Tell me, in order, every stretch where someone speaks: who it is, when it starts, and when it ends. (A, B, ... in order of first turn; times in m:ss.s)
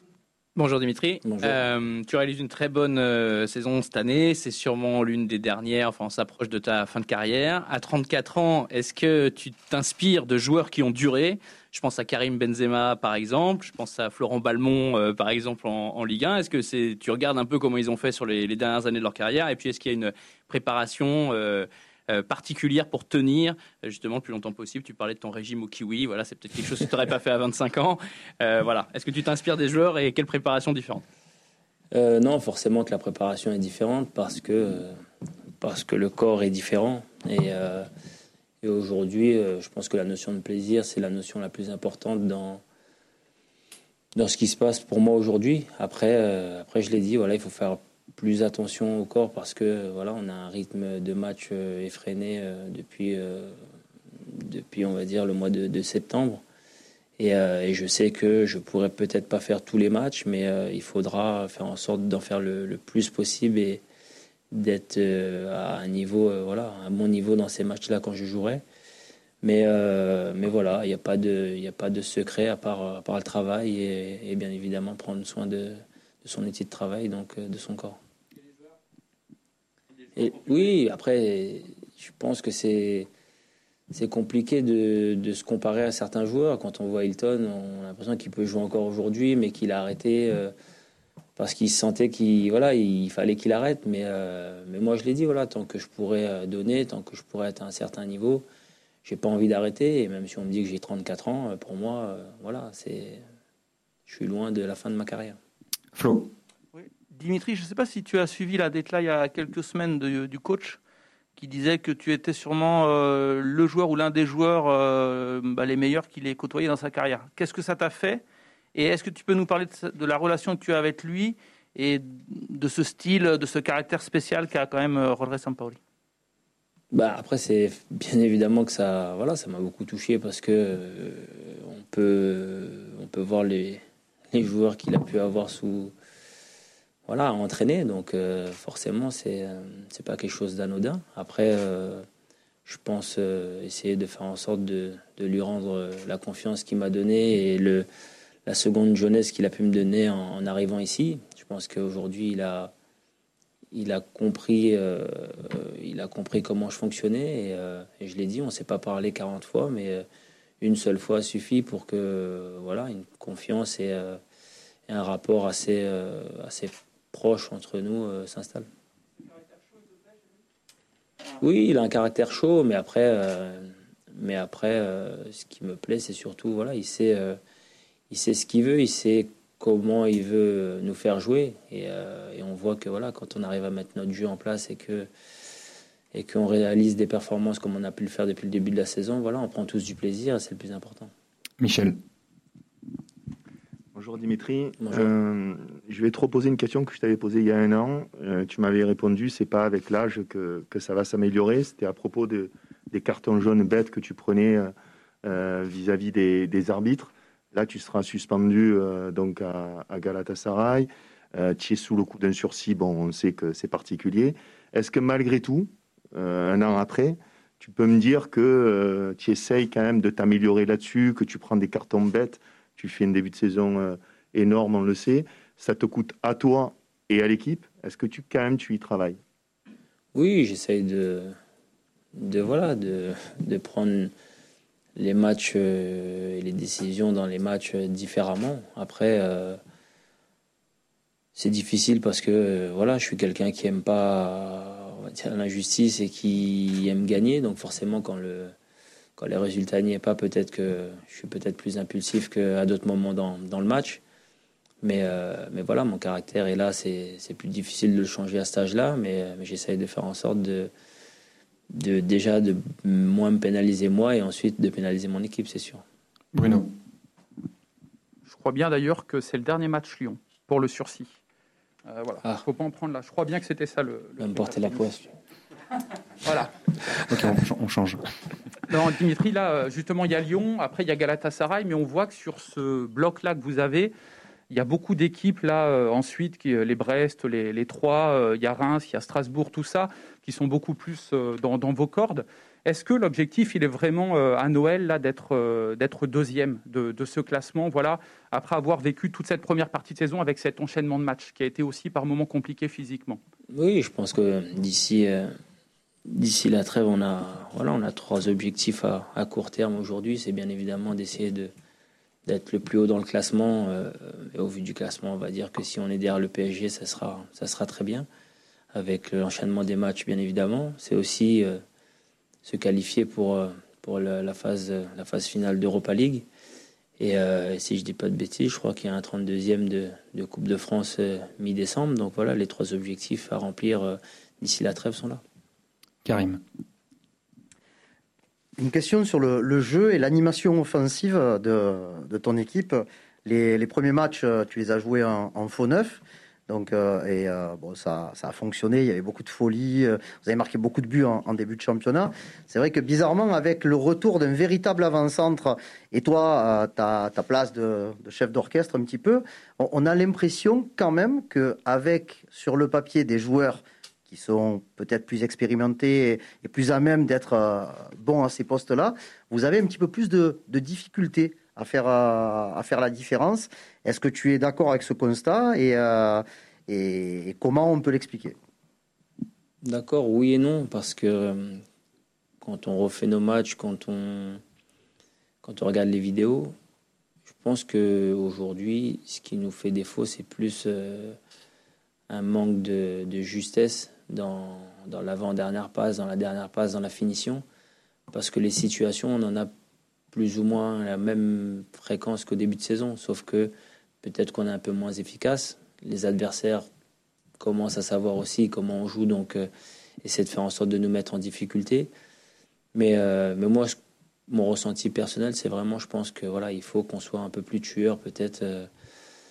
0:00.6-0:31.0 A
0:01.2-0:01.6 B
0:31.9-0:35.0 B
0:35.6-0:37.9 B
0:38.6-0:42.6 B
0:44.2-0:53.6 B
0:54.2-0:56.4 B
0:57.2-1:03.8 B
1:04.5-1:08.6 B
1:09.4-1:18.0 B
1:20.2-1:23.1 B
1:23.9-1:30.5 B
1:31.4-1:38.4 B
1:39.0-1:43.2 B
1:44.1-1:45.4 B
1:45.9-1:46.3 C
1:46.7-1:50.8 D
1:51.4-1:58.2 D
1:58.8-2:05.8 D
2:06.9-2:16.0 B
2:17.0-2:22.1 B
2:22.7-2:27.9 B
2:28.5-2:32.7 B
2:33.7-2:40.1 B
2:40.6-2:44.2 B
2:44.9-2:48.7 B
2:51.4-2:57.4 B
2:58.1-3:05.1 B
3:06.1-3:11.1 B
3:11.6-3:12.0 C
3:14.0-3:24.7 E
3:25.2-3:49.2 E
3:50.1-3:51.4 B
3:52.2-3:54.1 B
3:55.0-3:59.6 B
4:01.4-4:08.6 B
4:09.2-4:14.0 B
4:14.8-4:20.7 B
4:21.7-4:25.8 B
4:26.3-4:26.7 C
4:28.3-4:31.2 F
4:31.9-4:34.9 F
4:34.2-4:35.1 B
4:36.2-4:36.6 F
4:37.1-4:38.0 C
4:38.7-4:43.9 F
4:44.5-5:03.2 F
5:03.5-5:05.3 B
5:06.0-5:11.5 B
5:12.3-5:18.1 B
5:18.7-5:21.6 B
5:22.4-5:26.3 B
5:27.0-5:35.2 B
5:36.0-5:36.4 C
5:38.6-6:18.4 G
6:19.6-6:21.6 B
6:22.4-6:24.4 B
6:25.4-6:26.6 B
6:27.3-6:31.2 B
6:32.1-6:37.4 B
6:38.1-6:39.5 B
6:40.1-6:46.7 B
6:47.4-6:49.5 B
6:50.0-6:51.9 B
6:52.7-6:53.8 B
6:54.3-6:58.7 B